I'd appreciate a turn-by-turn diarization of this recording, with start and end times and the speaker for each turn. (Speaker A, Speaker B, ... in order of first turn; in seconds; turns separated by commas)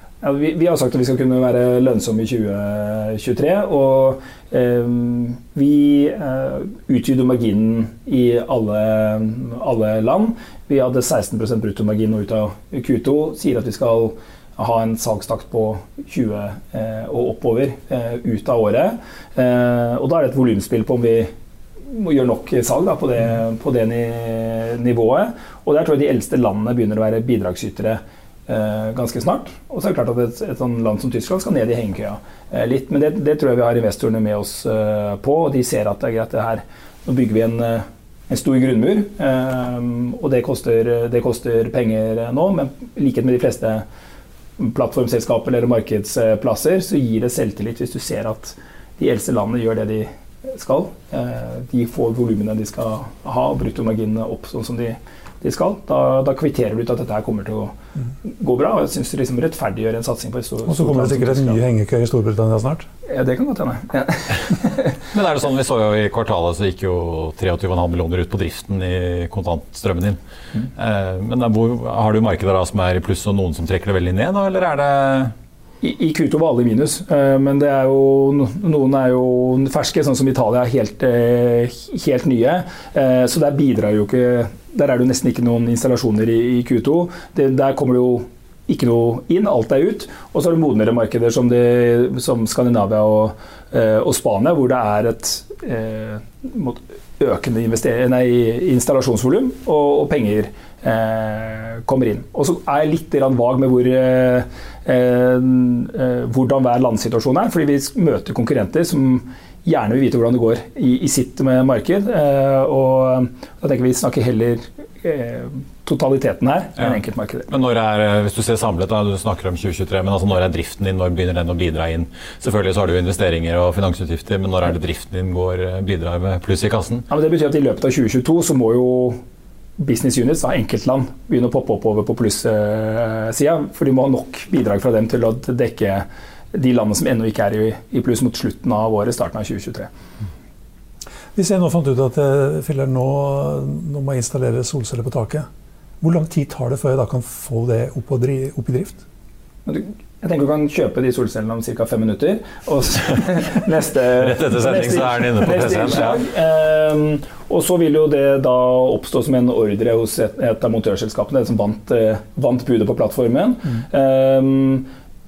Speaker A: 0.2-21.3, Speaker A: 21.9-43.8, Speaker A: 44.6-61.6, Speaker B: 60.7-62.9, Speaker A: 63.0-64.9, Speaker C: 65.1-70.2, Speaker C: 70.8-75.3, Speaker A: 75.8-117.5, Speaker C: 117.5-127.1, Speaker A: 127.1-129.2, Speaker A: 129.8-139.9, Speaker B: 141.3-145.5, Speaker B: 146.0-149.0, Speaker A: 149.7-164.9, Speaker C: 154.2-156.2